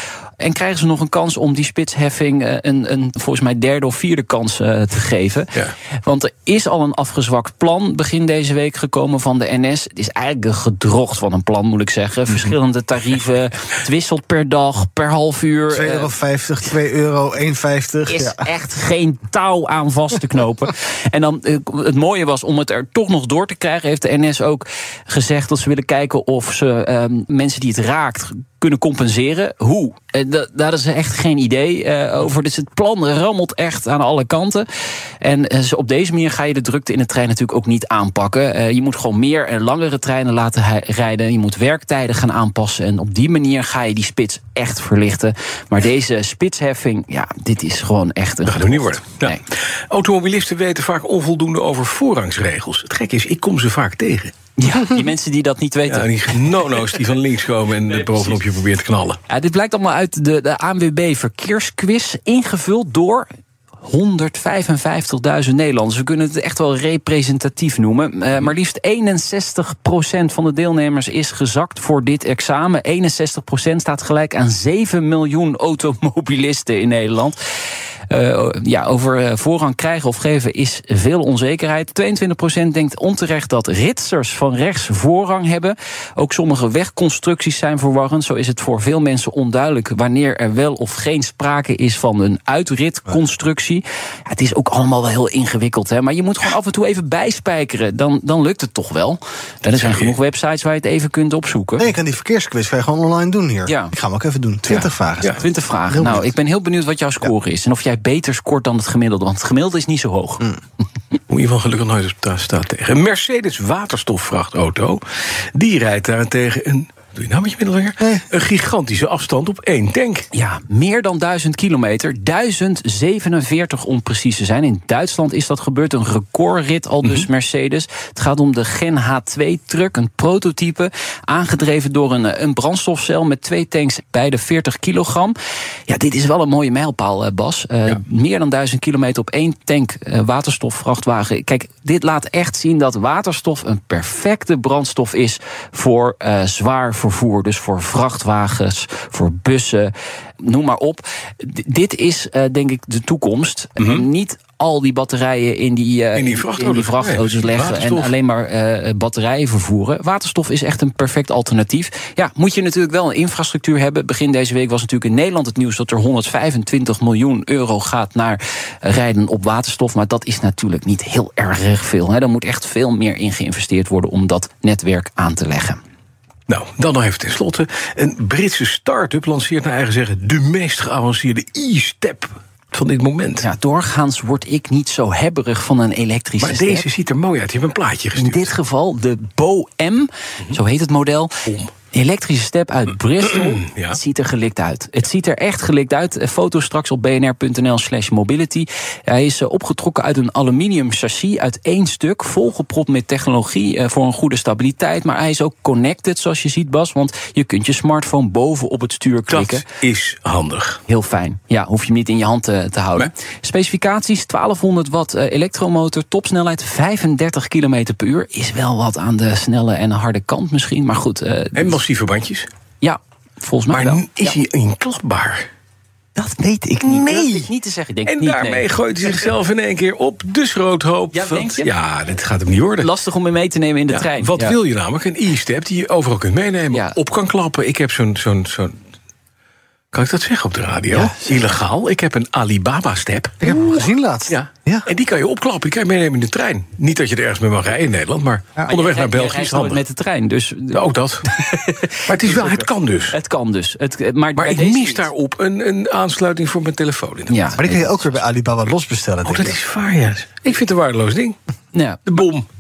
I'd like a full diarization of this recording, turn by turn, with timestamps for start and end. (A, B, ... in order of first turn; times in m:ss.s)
0:00.4-0:05.5 A
0:06.0-0:16.1 A
0:15.7-0:18.4 B
0:18.1-0:34.7 A
0:35.2-0:49.4 A
0:48.4-0:54.3 C
0:54.6-0:56.9 A
0:55.9-0:59.2 C
0:59.3-1:03.2 A
1:03.8-1:17.4 A
1:18.1-1:41.9 A
1:39.6-1:40.1 C
1:41.8-1:46.2 B
1:43.7-1:43.9 A
1:44.7-1:45.4 C
1:45.2-1:50.5 A
1:51.3-2:00.2 C
1:58.0-1:58.2 B
2:00.3-2:15.4 A
2:15.9-2:55.8 A
2:33.8-2:34.0 C
2:36.2-2:38.1 C
2:56.5-3:03.5 C
3:03.4-3:06.8 A
3:06.4-3:08.5 C
3:08.2-3:11.3 A
3:11.5-3:11.7 C
3:11.9-3:29.6 A
3:13.3-3:14.0 C
3:29.3-3:30.8 C
3:30.9-3:41.8 A
3:41.5-3:42.5 C
3:42.8-3:44.4 A
3:43.7-3:45.5 C
3:46.2-3:49.2 A
3:46.5-3:47.5 C
3:48.1-3:52.9 C
3:51.1-3:51.7 A
3:52.8-3:54.6 A
3:53.9-3:58.8 C
3:56.7-3:57.0 A
3:59.9-4:09.8 C
4:03.4-4:04.9 B
4:08.7-4:15.1 A
4:10.7-4:13.2 C
4:14.4-4:17.5 C
4:17.3-4:18.2 A
4:17.6-4:19.6 B
4:19.2-4:21.4 C
4:21.7-4:22.0 A
4:22.0-4:22.5 C